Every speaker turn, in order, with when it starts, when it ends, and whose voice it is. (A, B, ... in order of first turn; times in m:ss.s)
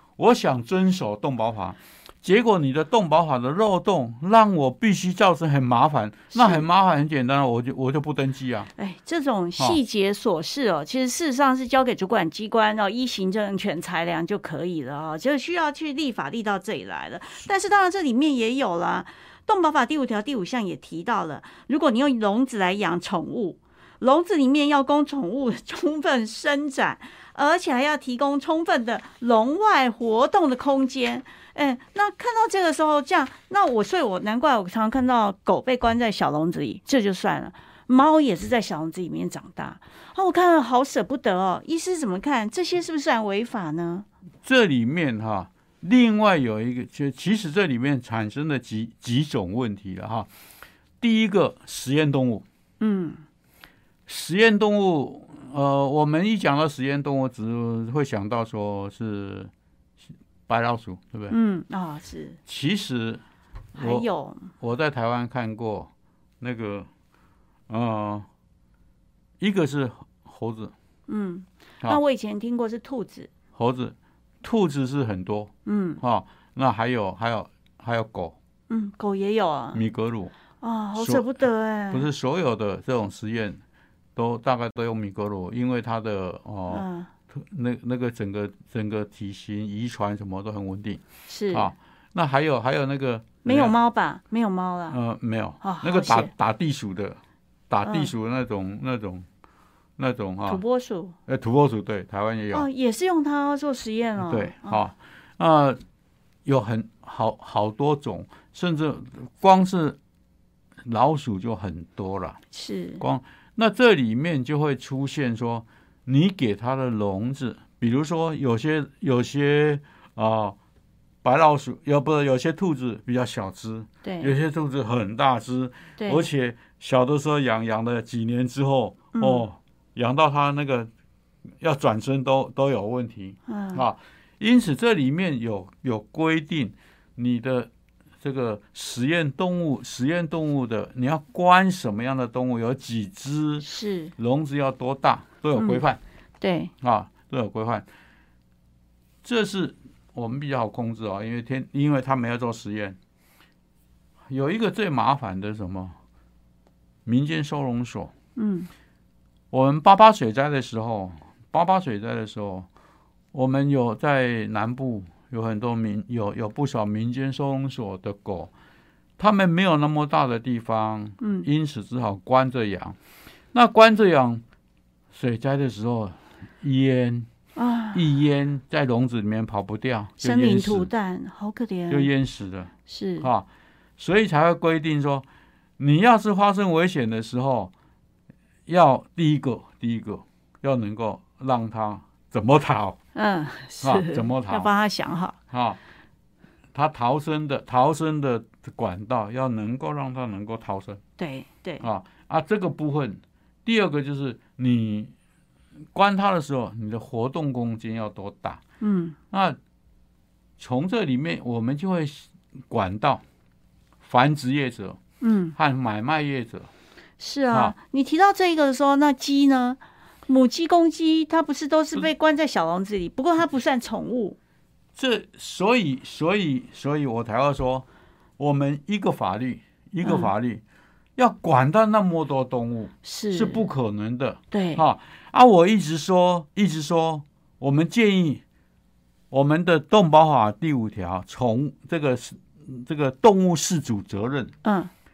0:00.2-0:08.7 A
0:06.3-0:06.7 B
0:08.8-0:44.1 B
0:44.4-0:50.3 A
0:51.0-0:52.4 A
0:52.8-0:53.2 B
0:54.1-0:59.5 A
1:00.5-1:01.4 A
1:01.3-1:02.4 B
1:02.5-1:03.2 A
1:03.8-1:04.1 A
1:03.8-1:04.5 B
1:04.6-1:05.9 A
1:06.4-1:06.9 A
1:07.7-1:08.3 A
1:09.4-1:10.7 A
1:11.1-1:13.3 B
1:13.6-1:18.4 A
1:15.7-1:16.0 B
1:18.7-1:19.8 B
1:19.7-1:20.3 A
1:20.6-1:22.1 B
1:21.0-1:23.6 A
1:24.2-1:33.7 A
1:26.7-1:27.1 B
1:31.3-1:31.7 B
1:33.4-1:35.0 B
1:34.9-1:37.2 A
1:35.6-1:36.3 B
1:37.7-1:39.3 A
1:37.8-1:38.1 B
1:40.0-1:40.6 A
1:40.5-1:41.2 B
1:41.3-1:42.7 A
1:42.5-1:44.8 B
1:44.2-1:45.8 A
1:46.4-1:50.0 A
1:50.8-1:52.4 A
1:52.5-1:53.0 B
1:53.0-2:00.6 A
2:01.2-2:10.9 A
2:04.0-2:04.3 B
2:06.0-2:06.3 B
2:09.1-2:09.5 B
2:11.6-2:17.7 A
2:13.5-2:13.8 B
2:18.2-2:26.0 A
2:23.6-2:24.1 B
2:25.6-2:25.8 B
2:26.4-2:26.7 B
2:26.8-2:27.8 A
2:29.2-2:33.0 A
2:34.3-2:36.0 A
2:37.1-2:38.1 A
2:38.4-2:38.7 B
2:39.5-2:42.7 A
2:43.3-2:48.5 A
2:49.2-2:53.0 A
2:51.2-2:51.5 B
2:53.5-2:54.4 A
2:55.1-2:57.3 A
2:57.6-2:58.1 B
2:57.9-3:00.9 A
3:00.2-3:02.1 B
3:01.9-3:03.5 A
3:02.9-3:03.3 B
3:04.0-3:05.3 A
3:05.8-3:07.7 A
3:08.7-3:13.0 A
3:13.2-3:15.4 B
3:13.8-3:14.7 A
3:15.5-3:15.8 A
3:16.7-3:21.0 A
3:21.2-3:21.8 B
3:21.8-3:25.1 A
3:25.9-3:28.6 A
3:28.8-3:29.2 B
3:29.3-3:29.6 A
3:30.6-3:33.2 A
3:34.0-3:35.0 A
3:35.2-3:35.6 B
3:35.6-3:36.7 A
3:37.2-3:44.4 B
3:37.5-3:37.8 A
3:45.0-3:47.8 A
3:48.4-3:50.6 A
3:50.0-3:50.3 B
3:51.2-3:58.4 A
3:53.0-3:53.6 B
3:54.5-3:54.8 B
3:59.3-4:04.5 A
4:04.6-4:04.9 B